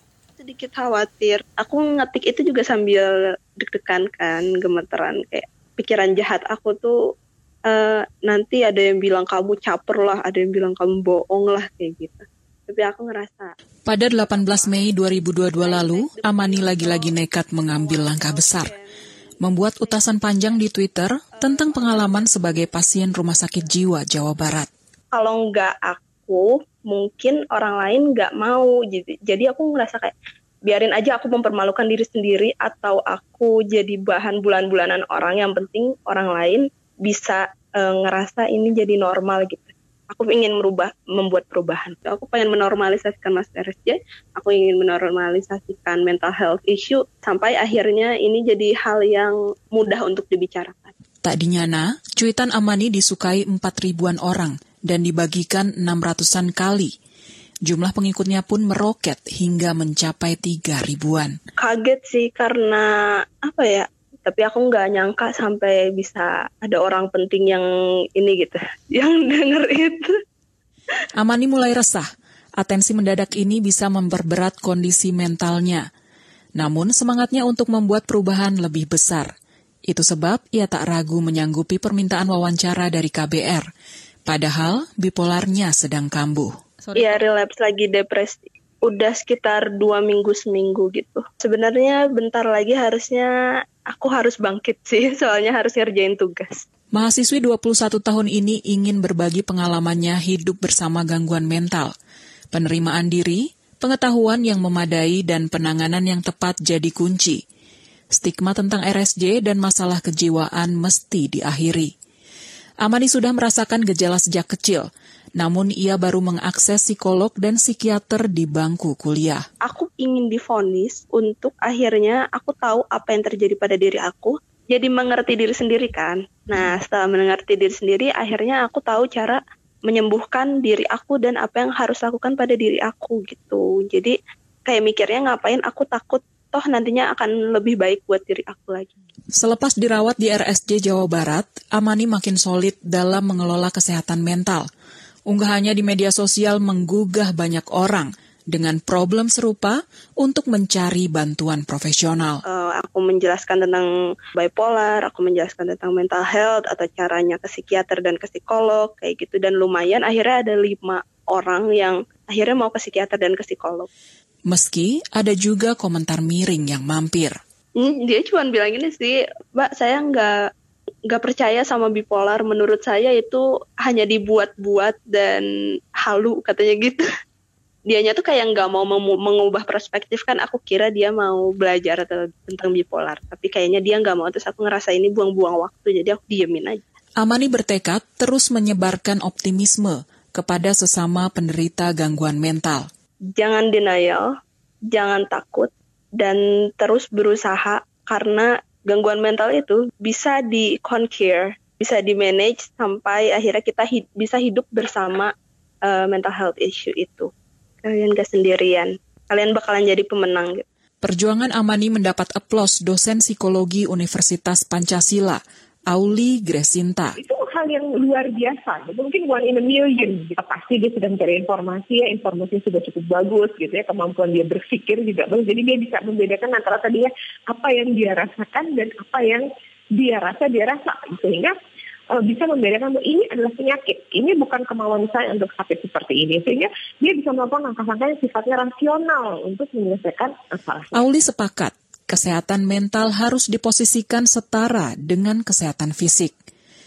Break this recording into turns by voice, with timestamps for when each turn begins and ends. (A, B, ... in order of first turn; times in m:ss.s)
0:00.4-0:07.0 A
0:07.7-0:13.5 A
0:13.9-0:18.7 B
0:14.1-0:14.9 A
0:15.5-0:18.9 A
0:19.4-0:24.7 B
0:21.4-0:23.6 A
0:25.1-0:30.1 A
0:30.6-0:50.9 A
0:51.2-0:56.9 B
0:57.6-1:01.3 B
1:01.6-1:07.6 A
1:08.2-1:10.1 A
1:11.2-1:12.1 B
1:12.6-1:15.8 B
1:16.6-1:19.3 B
1:19.9-1:23.6 B
1:24.2-1:26.5 B
1:27.0-1:33.3 A
1:33.9-1:36.6 A
1:36.9-1:41.9 B
1:42.5-1:47.4 B
1:48.1-1:51.9 B
1:52.8-1:54.8 B
1:55.4-1:59.4 B
1:59.6-2:14.1 A
2:14.6-2:18.9 A
2:19.4-2:24.6 B
2:25.3-2:32.4 B
2:32.4-2:43.9 A
2:44.5-2:47.3 B
2:47.8-2:50.3 A
2:51.1-2:55.4 A
2:56.0-2:57.0 A
2:57.9-3:06.8 A
3:07.2-3:12.8 B
3:13.4-3:14.3 A
3:14.9-3:25.3 A
3:25.8-3:27.3 A
3:27.8-3:30.6 A
3:31.0-3:37.2 B
3:37.2-3:51.5 C
3:52.1-4:01.0 C
4:00.9-4:06.3 B